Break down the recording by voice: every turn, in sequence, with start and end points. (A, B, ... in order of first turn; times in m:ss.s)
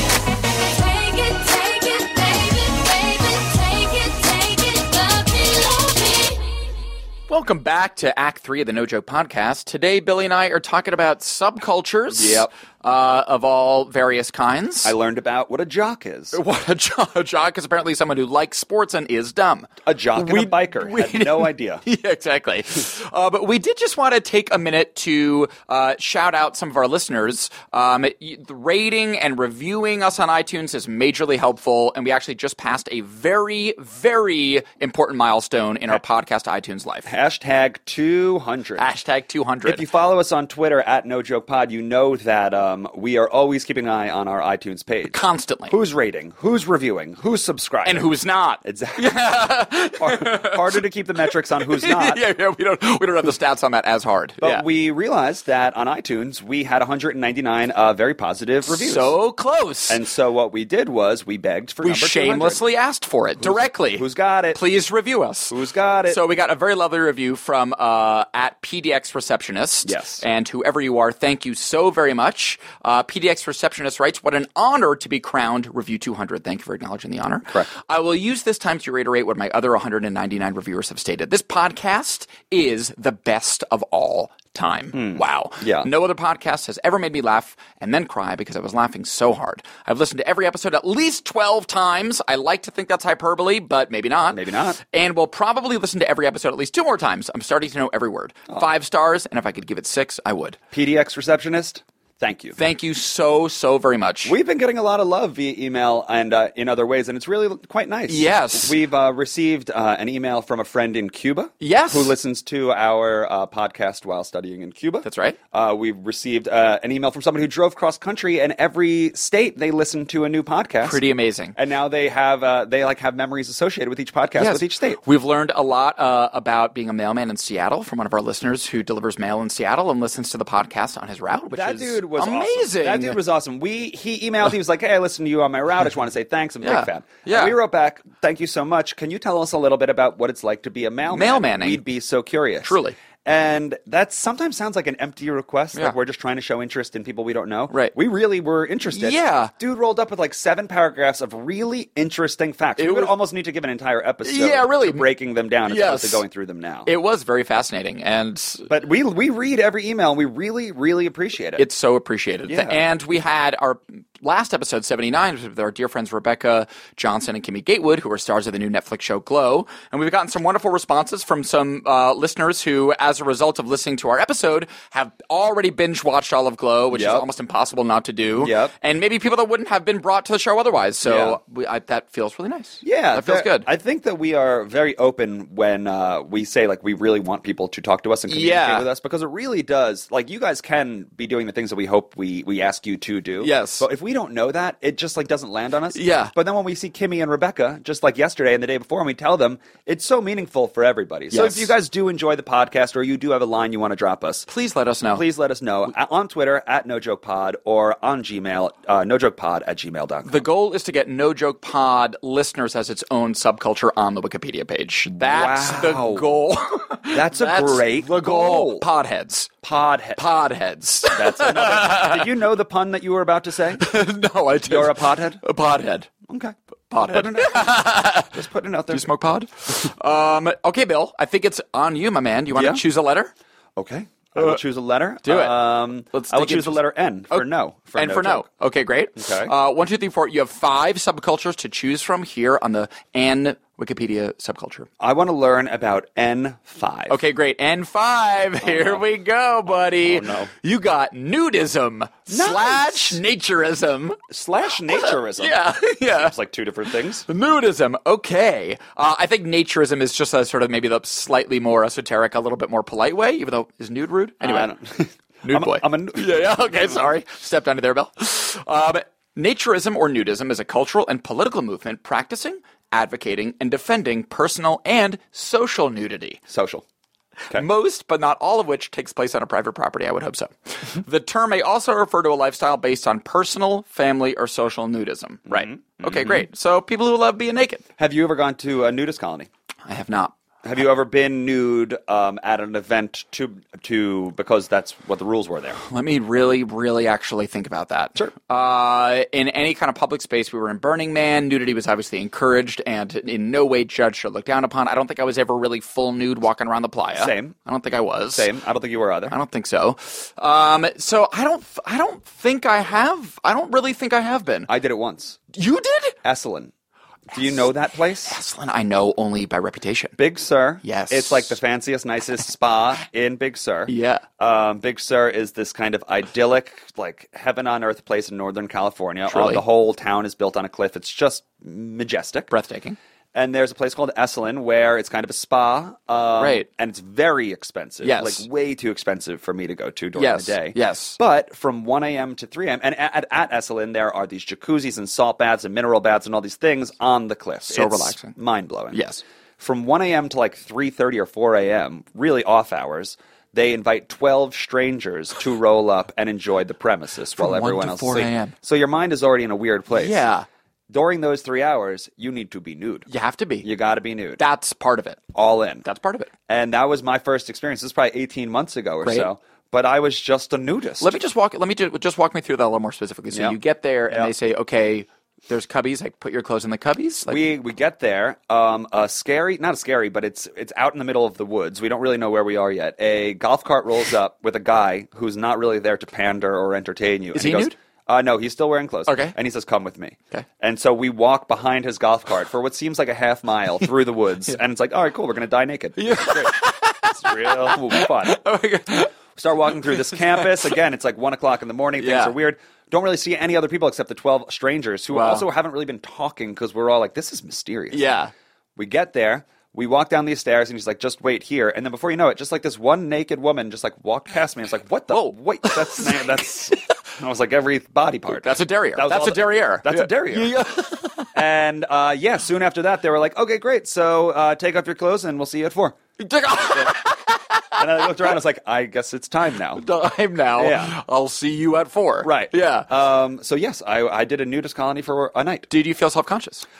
0:00.4-0:06.4 A
0:07.3-0:14.9 B
0:12.1-0:12.5 C
0:14.8-0:16.4 C
0:16.3-0:37.1 B
0:19.8-0:21.8 C
0:37.0-0:38.9 C
0:38.8-0:39.8 B
0:39.6-0:45.2 C
0:45.1-0:45.7 B
0:45.7-0:48.1 C
0:47.8-0:50.8 B
0:48.6-0:49.1 C
0:50.0-0:52.2 C
0:51.6-0:54.6 B
0:54.4-0:59.1 C
0:58.6-1:00.0 B
0:59.9-1:02.6 C
1:01.8-1:05.6 B
1:03.4-1:04.6 C
1:05.5-1:06.2 C
1:06.1-1:40.6 B
1:09.8-1:10.2 C
1:24.9-1:25.9 C
1:34.3-1:34.8 C
1:40.7-1:42.6 C
1:42.6-1:44.3 B
1:44.2-2:01.0 C
1:48.1-1:48.8 B
1:51.6-1:52.1 B
1:55.0-1:55.4 B
2:00.8-2:01.6 B
2:01.5-2:05.0 C
2:04.4-2:13.2 B
2:11.5-2:36.9 C
2:16.6-2:17.6 B
2:21.1-2:21.8 B
2:22.6-2:23.0 B
2:28.9-2:29.5 B
2:32.8-2:33.1 B
2:34.2-2:35.1 B
2:35.6-2:36.2 B
2:36.8-2:38.7 B
2:38.7-2:41.6 C
2:41.6-3:03.7 B
2:42.5-2:42.8 C
2:56.9-2:57.2 C
2:58.4-2:58.7 C
3:01.0-3:01.4 C
3:02.8-3:24.5 C
3:08.3-3:08.8 B
3:13.4-3:13.8 B
3:15.9-3:16.3 B
3:21.3-3:21.7 B
3:24.5-3:25.2 B
3:25.1-3:30.4 C
3:30.3-3:39.5 B
3:35.2-3:36.3 C
3:37.1-3:38.8 C
3:39.6-3:40.2 C
3:40.2-3:42.3 B
3:41.1-3:43.8 C
3:43.8-3:46.1 B
3:44.7-3:45.4 C
3:46.3-3:49.1 C
3:46.9-3:48.3 B
3:48.9-3:53.3 B
3:52.5-3:52.8 C
3:53.8-3:58.5 C
3:55.2-4:04.9 B
3:59.2-3:59.5 C
4:05.0-4:07.2 C
4:07.1-4:14.2 B
4:08.6-4:09.0 C
4:09.9-4:10.5 C
4:12.3-4:13.2 C
4:14.3-4:15.6 C
4:14.9-4:16.4 B
4:16.1-4:17.2 C
4:17.2-4:24.7 B
4:24.4-4:27.0 C
4:25.4-4:36.4 B
4:36.5-4:36.8 C
4:37.5-4:47.8 B
4:45.5-4:46.4 C
4:48.0-4:49.5 C
4:49.8-4:50.3 B
4:50.6-4:55.8 C
4:55.8-5:08.5 B
5:07.1-5:07.5 C
5:08.4-5:09.3 C
5:09.3-5:14.7 B
5:14.7-5:15.4 C
5:15.5-5:16.2 B
5:16.2-5:16.7 C
5:17.3-5:18.4 C
5:18.2-5:20.2 B
5:20.2-5:32.5 C
5:20.8-5:21.6 B
5:23.9-5:24.2 B
5:29.3-5:29.6 B
5:32.5-5:33.0 B
5:33.3-5:49.0 C
5:36.4-5:36.7 B
5:38.0-5:38.4 B
5:40.2-5:41.2 B
5:47.7-5:48.4 B
5:48.9-5:49.2 B
5:49.6-6:00.2 C
5:57.4-5:58.5 B
5:59.9-6:00.4 B
6:00.9-6:03.1 C
6:03.1-6:03.7 B
6:03.6-6:04.4 C
6:04.4-6:05.2 B
6:05.3-6:05.8 C
6:05.8-6:06.3 B
6:06.5-6:11.2 C
6:09.0-6:09.3 B
6:11.0-6:17.4 B
6:17.3-6:36.6 C
6:27.3-6:27.8 B
6:29.1-6:29.3 B
6:36.0-6:39.1 B
6:37.1-6:38.4 C
6:39.3-6:48.1 C
6:39.8-6:40.7 B
6:42.0-6:42.3 B
6:45.1-6:45.5 B
6:47.9-6:48.3 B
6:48.8-7:00.5 C
6:55.1-6:56.8 B
6:58.4-7:01.3 B
7:01.3-7:06.0 C
7:06.2-7:08.3 B
7:07.8-7:09.8 C
7:09.8-7:12.9 B
7:10.6-7:11.0 C
7:12.2-7:15.7 C
7:15.7-7:16.6 B